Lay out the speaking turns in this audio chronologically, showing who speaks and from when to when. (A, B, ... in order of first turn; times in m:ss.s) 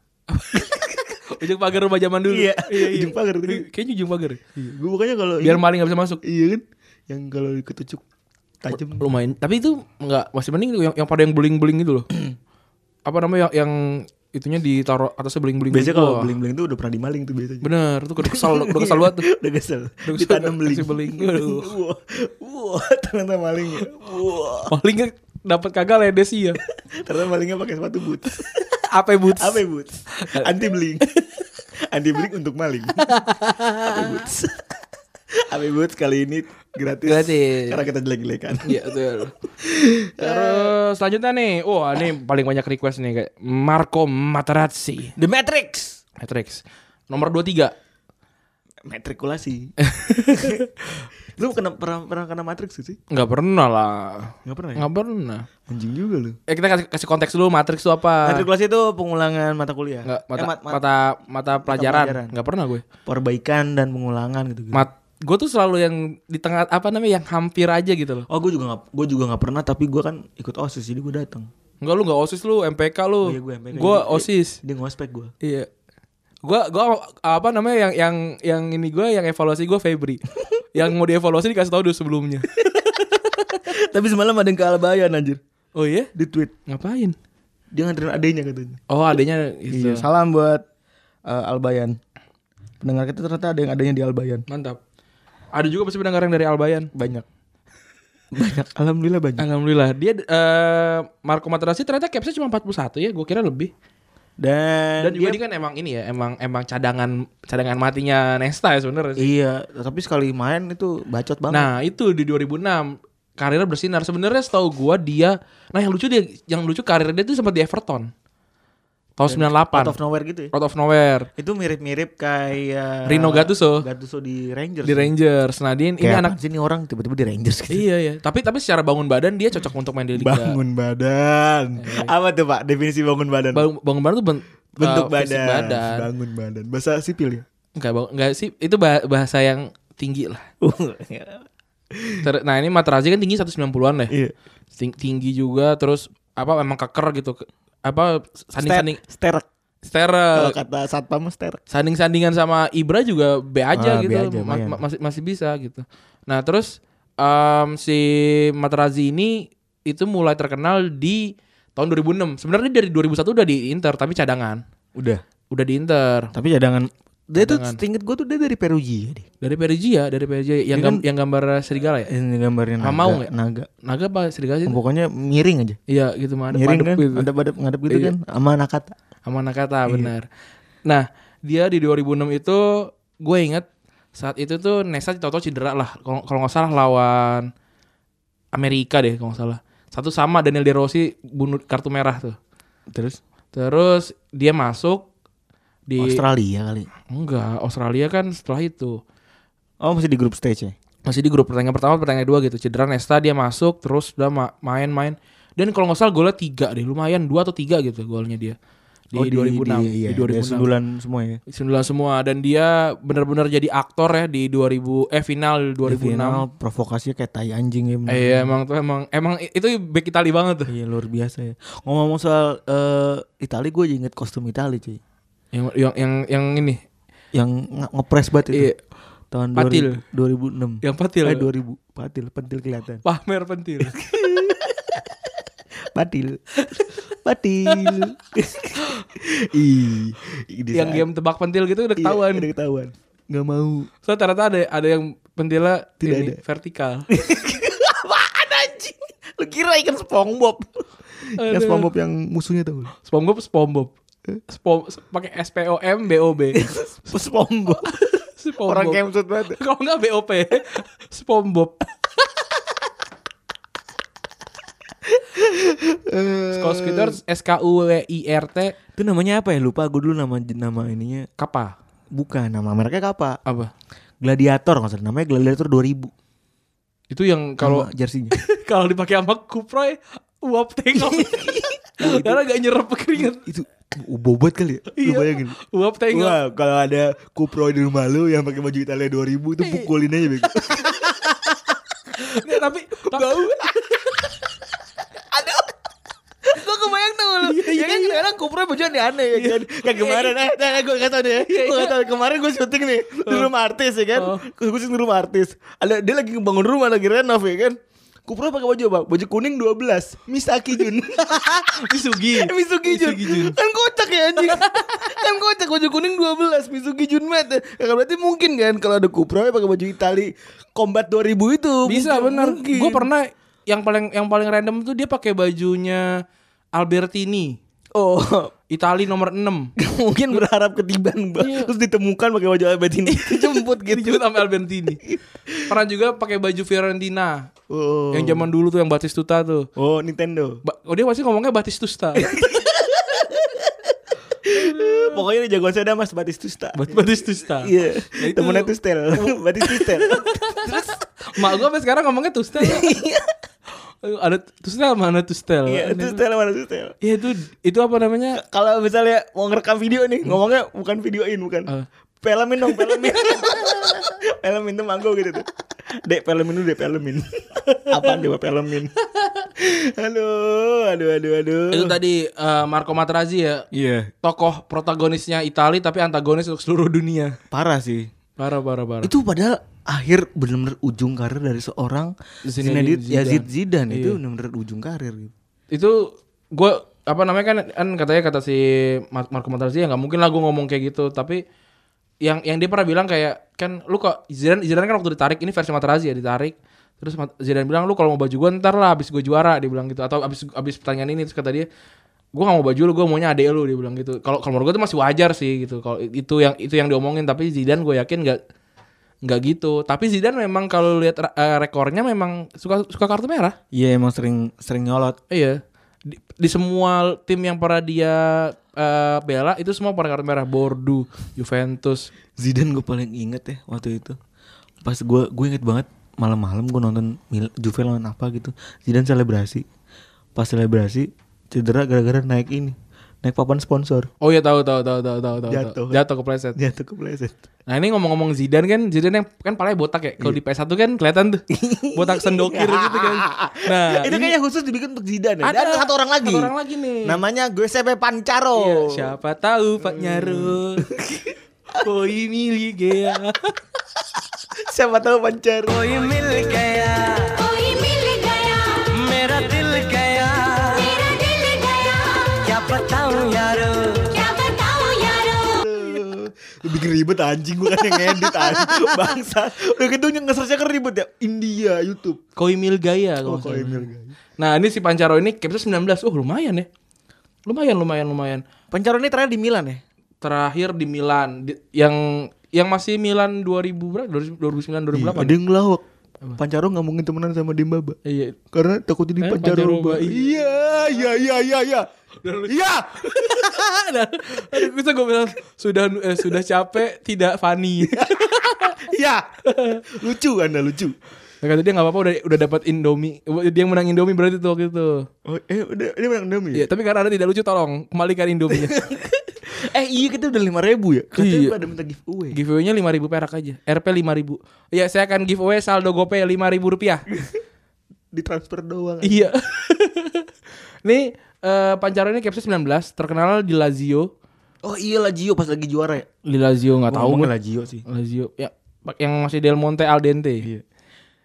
0:00.3-0:04.4 A
0:02.3-0:03.6 B
0:04.5-0:05.6 B
0:05.4-0:06.2 A
0:06.2-0:08.0 B
0:08.6-0:09.1 B
0:08.8-0:12.1 A
0:13.0-0:16.3 A
0:15.7-0:17.7 B
0:17.6-0:19.3 A
0:18.2-0:24.7 B
0:20.1-0:21.7 A
0:24.7-0:26.6 A
0:26.9-0:28.8 B
0:28.9-0:29.6 A
0:29.4-0:31.0 B
0:30.2-0:30.5 A
0:31.9-0:33.1 B
0:33.0-0:34.2 A
0:33.9-0:34.7 B
0:35.4-0:38.8 B
0:37.0-0:37.8 A
0:38.6-0:39.3 A
0:39.6-0:40.8 B
0:40.2-0:45.1 A
0:45.2-0:46.0 B
0:46.2-0:47.7 A
0:48.8-0:53.0 B
0:49.9-0:50.6 A
0:53.1-0:55.5 A
0:54.4-0:54.9 B
0:55.7-0:56.4 B
0:56.5-0:58.4 A
0:58.2-1:00.8 B
1:00.0-1:02.8 A
1:01.6-1:02.3 B
1:03.0-1:04.9 B
1:04.7-1:08.3 A
1:08.3-1:11.5 B
1:11.8-1:14.6 A
1:13.2-1:15.3 B
1:15.4-1:15.7 A
1:16.4-1:23.6 A
1:23.6-1:25.4 B
1:25.8-1:26.1 A
1:26.1-1:26.5 B
1:26.6-1:27.2 A
1:27.7-1:28.8 B
1:28.9-1:30.0 A
1:29.7-1:30.6 B
1:31.2-1:32.0 B
1:32.8-1:34.4 B
1:34.5-1:34.8 A
1:35.5-1:36.9 A
1:36.9-1:37.2 B
1:38.3-1:39.4 B
1:39.4-1:43.7 A
1:44.4-1:45.4 B
1:45.0-1:49.2 A
1:49.2-1:51.7 B
1:51.5-1:58.1 A
1:59.2-2:00.0 A
1:59.3-2:00.5 B
2:00.5-2:01.3 A
2:01.4-2:05.1 B
2:03.0-2:03.8 A
2:04.8-2:06.3 A
2:06.0-2:07.9 B
2:07.7-2:10.6 A
2:10.2-2:13.6 B
2:11.8-2:12.1 A
2:13.5-2:16.1 A
2:14.8-2:17.4 B
2:17.8-2:20.5 A
2:20.6-2:22.2 B
2:22.2-2:24.1 A
2:24.8-2:29.0 A
2:28.6-2:29.4 B
2:29.8-2:30.5 A
2:30.3-2:31.6 B
2:31.7-2:44.6 A
2:33.7-2:34.8 B
2:45.0-2:45.2 B
2:45.5-2:46.3 A
2:46.3-2:49.3 B
2:47.4-2:47.8 A
2:49.4-2:52.1 A
2:50.7-2:51.0 B
2:52.1-2:53.7 B
2:52.8-2:53.3 A
2:53.8-2:54.8 A
2:54.6-2:55.8 B
2:55.9-2:57.3 A
2:56.5-2:58.9 B
2:57.9-2:58.1 A
2:59.2-3:00.2 A
2:59.9-3:00.1 B
3:00.9-3:07.5 A
3:08.5-3:12.4 A
3:12.9-3:13.2 B
3:13.5-3:15.1 A
3:15.9-3:16.2 A
3:16.0-3:16.9 B
3:17.1-3:19.0 A
3:19.8-3:20.7 B
3:21.0-3:28.6 A
3:29.1-3:30.7 A
3:29.1-3:31.4 B
3:31.5-3:36.4 A
3:35.8-3:38.5 B
3:38.1-3:40.7 A
3:40.7-3:45.0 B
3:45.5-3:46.8 A
3:47.3-3:48.7 B
3:48.5-3:48.8 A
3:49.3-3:53.0 B
3:49.5-3:50.0 A
3:50.8-3:51.5 A
3:53.0-3:54.0 A
3:53.9-3:55.3 B
3:55.9-3:56.4 B
3:57.1-4:01.0 B
3:57.7-3:58.0 A
4:00.7-4:02.5 A
4:02.0-4:03.9 B
4:04.0-4:07.1 A
4:06.0-4:06.4 B
4:07.1-4:12.9 B
4:11.4-4:11.9 A
4:13.0-4:13.9 A
4:14.5-4:16.7 A
4:16.5-4:19.6 B
4:18.4-4:19.0 A
4:19.5-4:21.9 A
4:25.0-4:27.2 B
4:26.5-4:28.7 A
4:29.0-4:31.3 B
4:31.4-4:31.7 A
4:32.1-4:33.4 B
4:33.4-4:33.7 A
4:34.2-4:36.1 B
4:37.1-4:43.4 A
4:37.6-4:38.3 B
4:40.9-4:42.4 B
4:43.4-4:45.6 B
4:44.9-4:46.4 A
4:46.1-4:51.3 B
4:50.5-4:54.3 A
4:53.1-4:54.2 B
4:55.2-4:55.8 B
4:56.4-5:23.1 B
4:57.4-4:58.2 A
4:59.3-5:00.3 A
5:01.5-5:01.9 A
5:04.1-5:04.4 A
5:11.2-5:13.5 A
5:14.4-5:14.9 A
5:21.8-5:26.1 A
5:26.7-5:27.6 A
5:27.9-5:28.5 B
5:28.7-5:29.7 A
5:29.8-5:34.3 B
5:31.4-5:31.7 A
5:33.0-5:35.0 A
5:35.0-5:35.8 B
5:35.7-5:37.5 A
5:37.7-5:38.5 B
5:38.1-5:39.7 A
5:39.8-5:40.6 B
5:40.6-5:42.4 A
5:42.2-5:43.9 B
5:44.4-5:51.0 B
5:44.5-5:45.2 A
5:46.7-5:48.7 A
5:49.6-5:52.9 A
5:52.6-5:53.4 B
5:54.0-5:56.2 A
5:55.7-5:56.9 B
5:57.0-5:58.4 A
5:58.3-6:01.7 B
6:02.2-6:05.4 B
6:06.0-6:12.0 B
6:11.7-6:13.6 A
6:13.7-6:14.1 B
6:14.2-6:17.4 A
6:17.5-6:18.1 B
6:18.4-6:19.1 A
6:19.0-6:25.3 B
6:22.4-6:24.2 A
6:25.7-6:31.4 A
6:32.2-6:41.7 A
6:42.3-6:48.4 A
6:49.2-6:53.6 A
6:53.7-6:55.2 B
6:55.3-7:02.1 A
7:02.4-7:04.2 B
7:04.8-7:09.6 B
7:10.3-7:14.1 B
7:14.2-7:16.6 A
7:15.5-7:16.0 B
7:16.6-7:17.4 B
7:17.7-7:24.3 A
7:21.5-7:26.5 B
7:25.4-7:27.2 A
7:27.0-7:29.1 B
7:28.5-7:30.8 A
7:29.8-7:31.3 B
7:31.8-7:33.5 A
7:34.6-7:35.8 B
7:35.7-7:45.7 C
7:45.6-7:52.2 B
7:52.4-7:53.9 A
7:53.2-7:54.1 B
7:54.4-7:56.7 A
7:57.4-7:58.4 A
7:58.7-7:59.8 B
8:00.2-8:05.4 A
8:04.9-8:05.8 B
8:06.4-8:08.0 B
8:08.0-8:08.4 A
8:08.5-8:11.9 B
8:09.2-8:11.0 A
8:12.2-8:18.9 A
8:12.4-8:13.5 B
8:17.8-8:18.2 B
8:18.7-8:19.3 B
8:19.4-8:19.8 A
8:19.9-8:20.9 B
8:21.4-8:25.1 A
8:25.2-8:26.6 B
8:26.5-8:28.9 A
8:28.5-8:32.4 B
8:31.2-8:31.6 A
8:32.3-8:37.0 A
8:37.1-8:37.4 B
8:38.1-8:39.3 B
8:39.0-8:40.3 A
8:40.8-8:44.1 A
8:44.6-8:46.1 B
8:46.2-8:47.3 A
8:46.9-8:47.8 B
8:47.8-8:50.5 A